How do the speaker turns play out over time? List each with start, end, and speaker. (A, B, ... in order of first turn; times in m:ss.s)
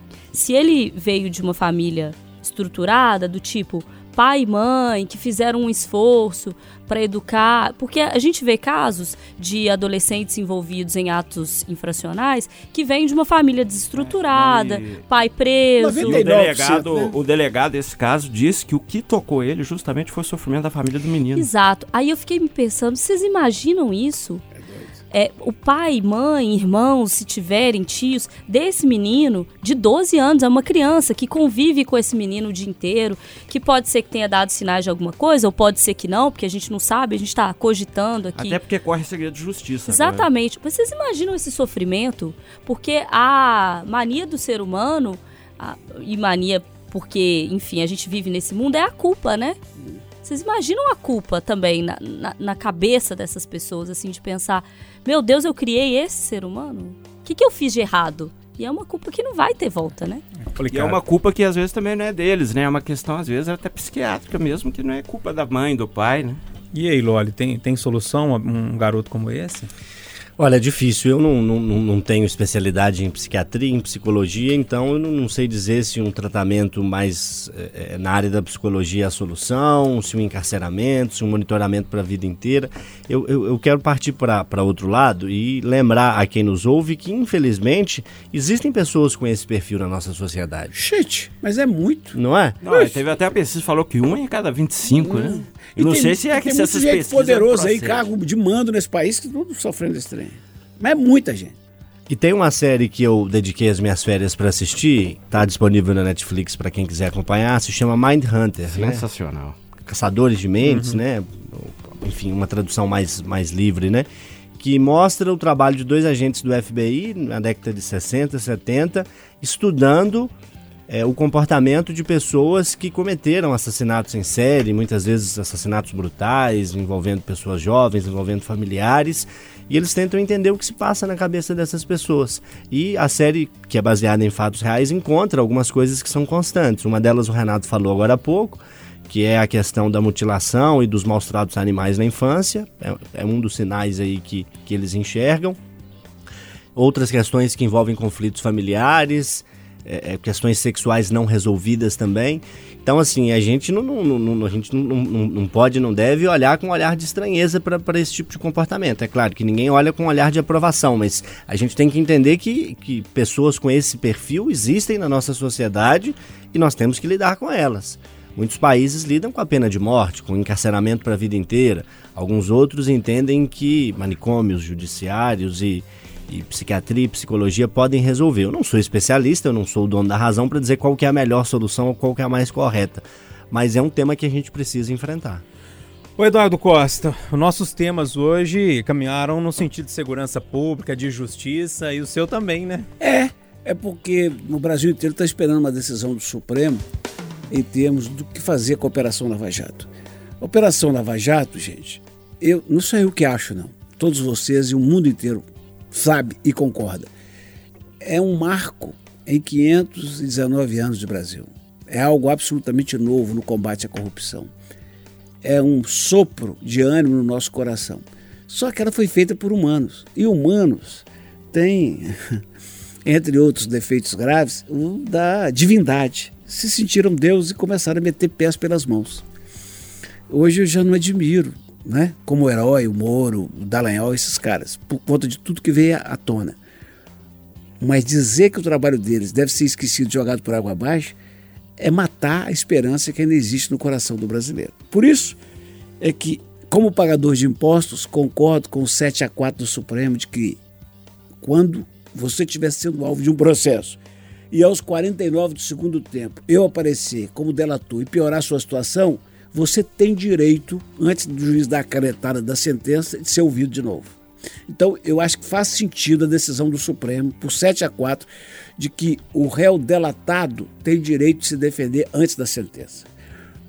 0:00.3-0:16.2 A
0:14.0-0:15.0 B
0:15.8-0:17.2 C
0:16.0-0:21.5 B
0:21.3-0:24.4 A
0:24.6-0:24.9 C
0:25.1-0:38.6 A
0:38.4-0:40.3 B
0:39.9-0:49.6 A
0:50.2-1:00.2 A
1:00.6-1:01.0 D
1:00.7-1:06.4 B
1:06.7-1:09.7 D
1:10.4-1:30.7 E
1:30.7-1:32.2 C
1:32.1-1:32.6 E
1:32.6-1:38.1 B
1:35.0-1:41.5 C
1:42.1-1:49.0 E
1:48.7-1:49.6 B
1:49.9-2:00.3 E
1:50.7-1:51.0 D
2:00.9-2:25.6 E
2:26.8-3:05.4 E
3:06.2-3:12.9 D
3:13.0-3:16.8 C
3:17.5-3:19.9 C
3:20.4-3:27.1 C
3:28.0-3:34.5 C
3:35.4-3:42.4 C
3:43.0-3:49.2 C
3:50.3-3:56.6 C
3:57.8-4:01.2 C
4:01.8-4:05.4 C
4:06.0-4:10.6 C
4:11.4-4:14.0 C
4:14.5-4:24.2 C
4:24.7-4:33.1 C